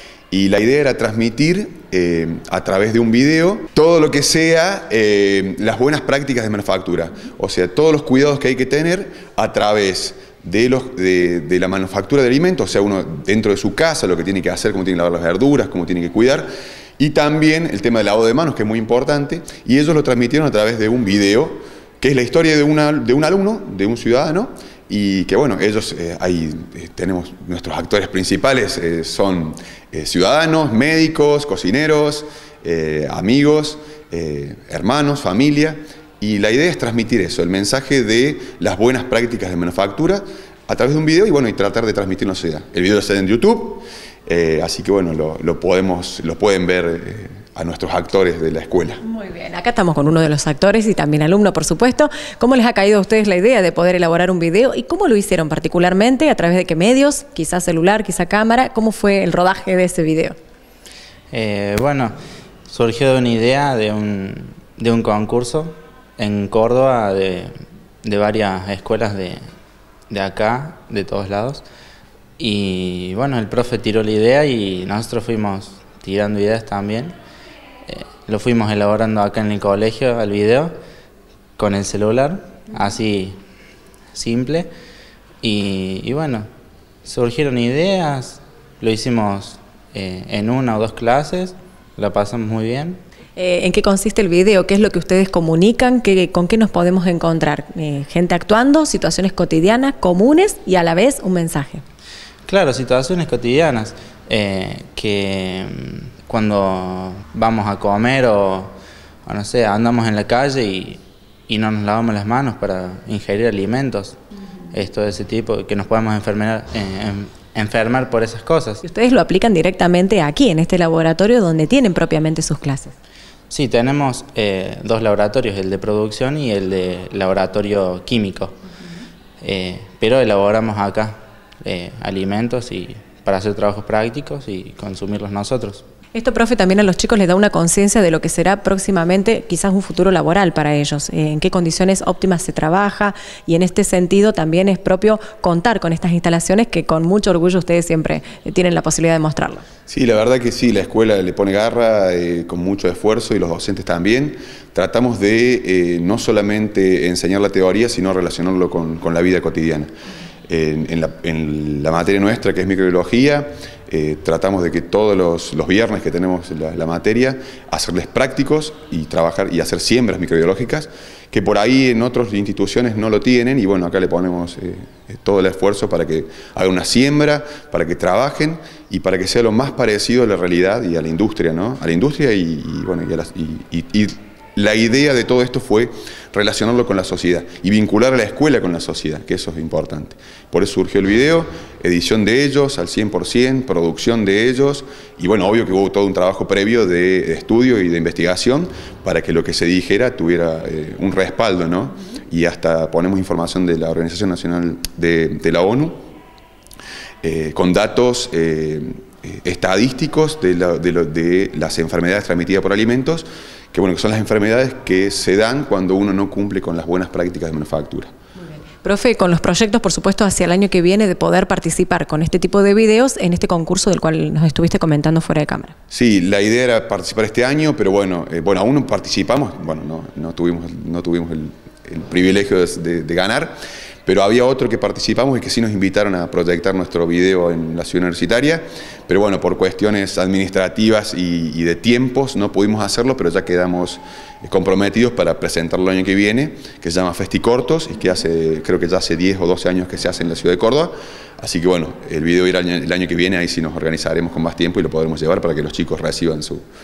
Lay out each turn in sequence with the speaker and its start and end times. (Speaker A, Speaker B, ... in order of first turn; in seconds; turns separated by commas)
Speaker A: 0.3-16.5, Speaker A: 17.0-49.0, Speaker B: 49.0-60.4, Speaker C: 61.3-62.1, Speaker C: 62.7-67.5, Speaker C: 68.0-69.4, Speaker C: 70.1-71.6, Speaker C: 72.4-77.2, Speaker C: 77.9-80.7, Speaker C: 81.6-83.4, Speaker C: 84.1-84.7, Speaker C: 85.4-86.5, Speaker C: 87.0-93.0, Speaker B: 93.4-101.8, Speaker C: 102.5-108.8, Speaker C: 109.3-114.2, Speaker C: 114.7-118.8, Speaker B: 118.8-122.9, Speaker C: 123.5-128.6, Speaker C: 129.4-135.8, Speaker B: 136.1-149.6, Speaker A: 149.9-159.9, Speaker A: 160.5-206.0, Speaker A: 207.2-218.1, Speaker B: 218.4-225.7, Speaker A: 225.9-256.6